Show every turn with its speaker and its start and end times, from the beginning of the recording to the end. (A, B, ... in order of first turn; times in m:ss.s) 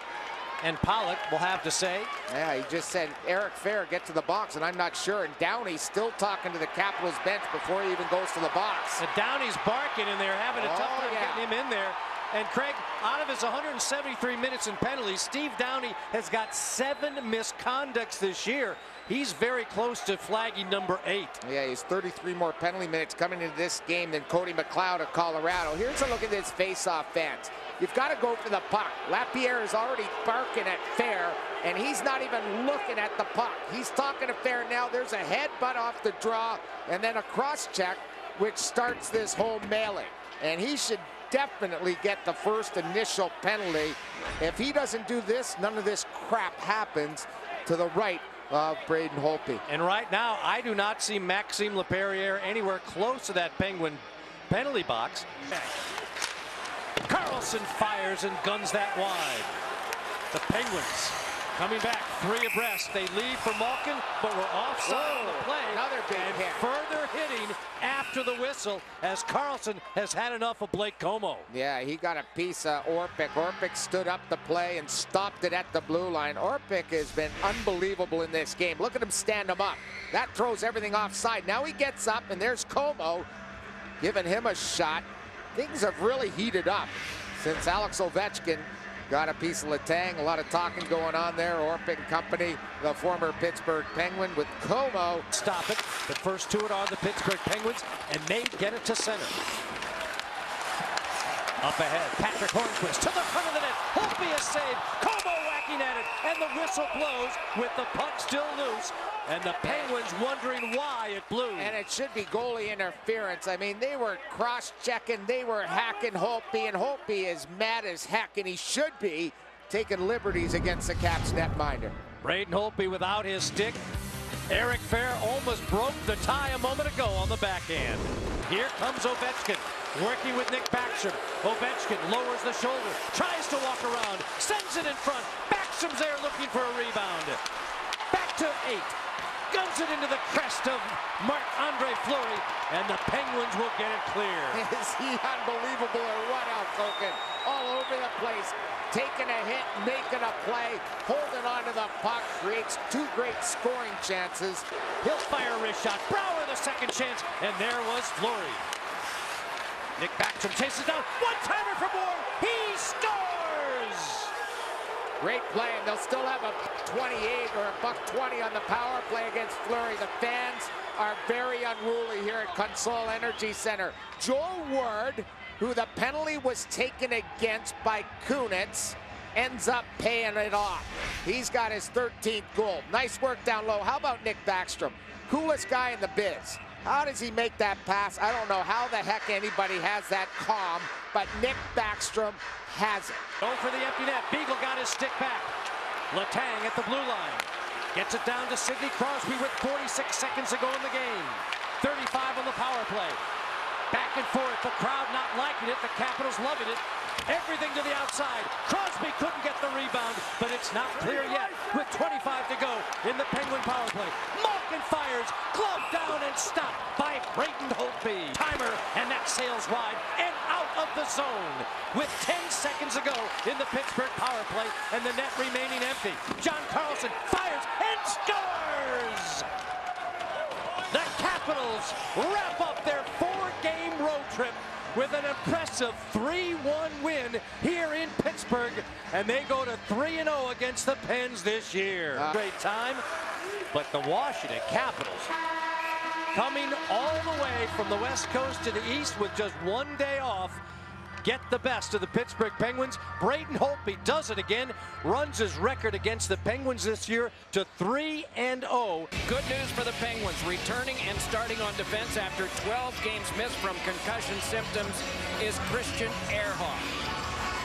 0:00.6-0:02.1 A
0:02.3-0:09.0 B
0:09.0-0:21.4 A
0:10.5-0:11.4 B
0:21.4-0:49.6 B
0:49.7-0:55.7 A
0:57.0-0:59.5 A
1:00.3-1:11.5 A
1:04.8-1:06.7 B
1:11.5-1:23.3 B
1:24.0-1:35.2 B
1:35.3-1:39.4 A
1:41.6-1:51.8 A
1:49.6-1:49.9 B
1:51.5-2:02.0 B
2:02.2-2:03.8 A
2:04.5-2:17.4 A
2:18.1-2:19.0 A
2:19.5-2:24.6 A
2:24.5-2:34.6 B
2:35.0-2:38.6 A
2:40.0-2:44.3 A
2:45.2-3:13.2 B
3:13.4-3:15.5 A
3:16.1-3:23.2 A
3:23.9-3:49.5 A
3:50.9-4:03.0 A
4:02.1-4:02.4 B
4:03.7-4:05.3 A
4:06.3-4:10.6 A
4:11.2-4:19.1 A
4:19.2-4:26.9 C